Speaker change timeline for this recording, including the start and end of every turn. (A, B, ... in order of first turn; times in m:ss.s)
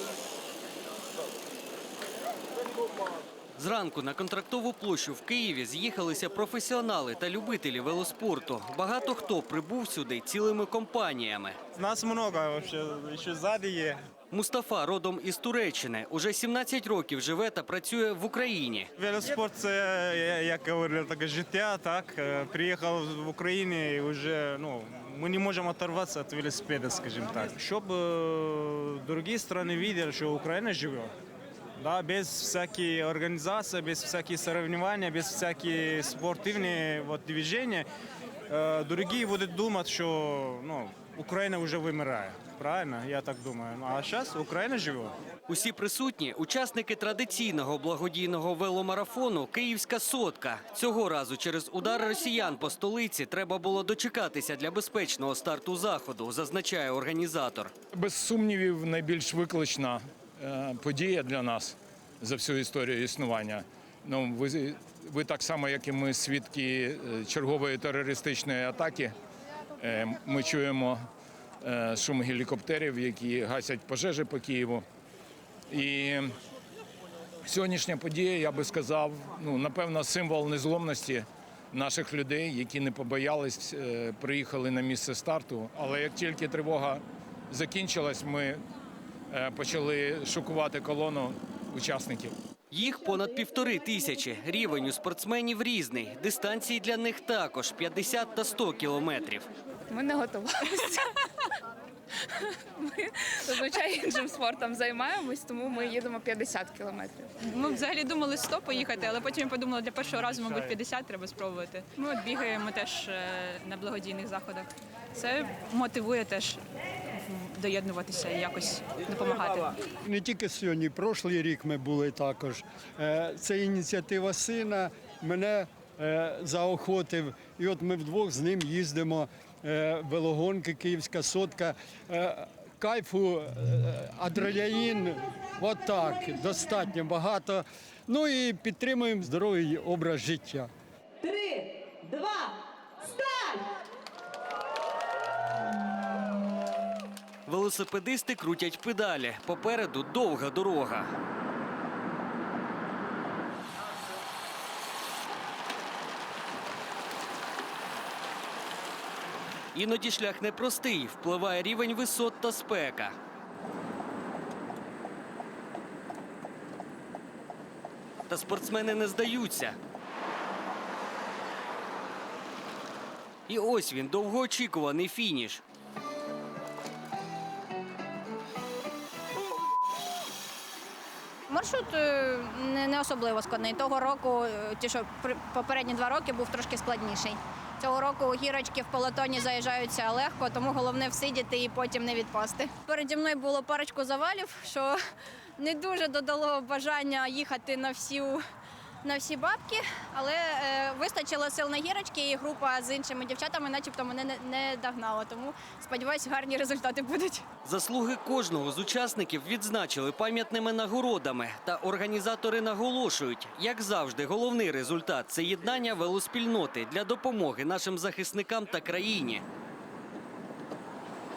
0:03.6-0:11.6 A
0:11.8-0:14.0 B
0:14.3-0:18.9 A
0:19.0-0:31.1 B
0:31.8-0:37.9 B
0:38.5-0:45.2 B
0:45.5-0:57.7 A
0:58.0-1:09.1 C
1:09.8-1:11.0 C
1:11.6-1:14.8 C
1:15.7-1:16.3 C
1:17.4-1:28.6 C
1:29.3-1:32.4 C
1:32.7-1:39.5 A
1:39.9-1:41.1 D
1:42.4-1:47.3 D
1:47.4-1:56.6 E
1:57.2-1:59.7 E
2:00.0-2:20.7 F
2:27.5-2:31.1 A
2:39.8-2:43.2 A
2:48.3-2:49.8 A
2:53.5-2:55.6 A
3:01.5-3:15.0 G
3:15.6-3:18.4 G
3:19.0-3:27.4 G
3:27.6-3:39.4 A